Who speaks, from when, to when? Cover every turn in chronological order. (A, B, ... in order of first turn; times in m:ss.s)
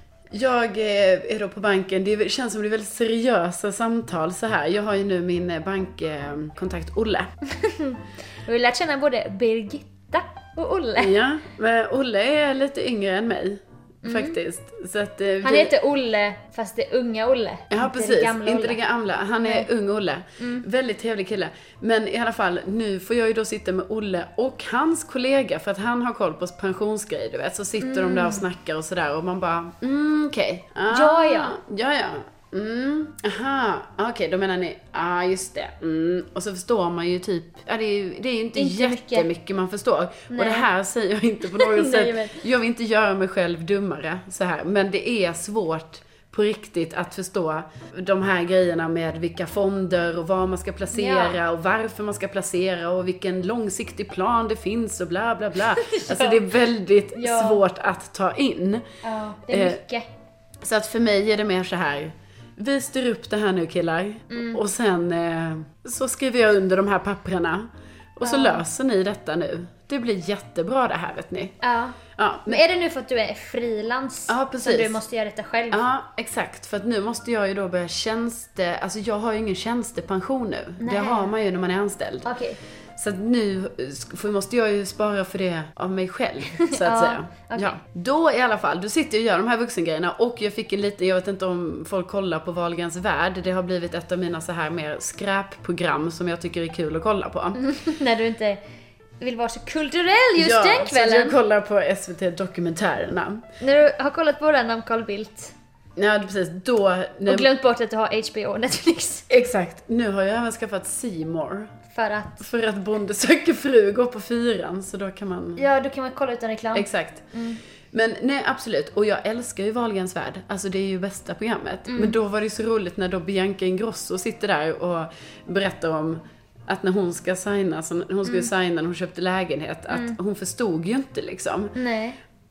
0:00.3-0:07.3 A
0:07.5-0:11.2 B
0:11.0-0:15.7 A
0:14.0-0:14.4 B
0:15.4-0:18.8 B
0:17.7-0:58.8 A
0:20.4-0:20.6 B
0:27.8-0:28.4 B
0:30.9-0:31.6 B
0:38.6-0:39.3 B
0:40.3-0:40.7 B
0:41.5-0:42.4 B
0:50.9-0:51.4 B
0:55.6-0:56.6 B
0:57.2-0:57.6 B
0:59.0-1:00.1 B
0:59.5-0:59.8 A
1:00.6-1:11.6 A
1:04.3-1:04.6 B
1:08.2-1:08.6 B
1:11.6-1:15.8 B
1:12.2-1:12.6 A
1:14.3-1:15.0 A
1:15.7-1:22.3 A
1:20.8-1:21.3 B
1:22.3-1:22.6 B
1:23.0-1:37.6 A
1:26.5-1:27.8 B
1:37.6-1:38.6 B
1:39.2-1:41.4 B
1:40.4-1:43.4 A
1:43.6-1:45.5 B
1:46.0-1:47.5 A
1:47.3-1:49.3 B
1:49.3-1:51.7 A
1:51.9-1:52.4 B
1:52.4-1:55.6 A
1:55.6-1:57.6 B
1:56.7-1:57.3 A
1:57.9-2:11.8 A
2:01.9-2:02.2 B
2:09.9-2:10.2 B
2:11.8-2:12.2 B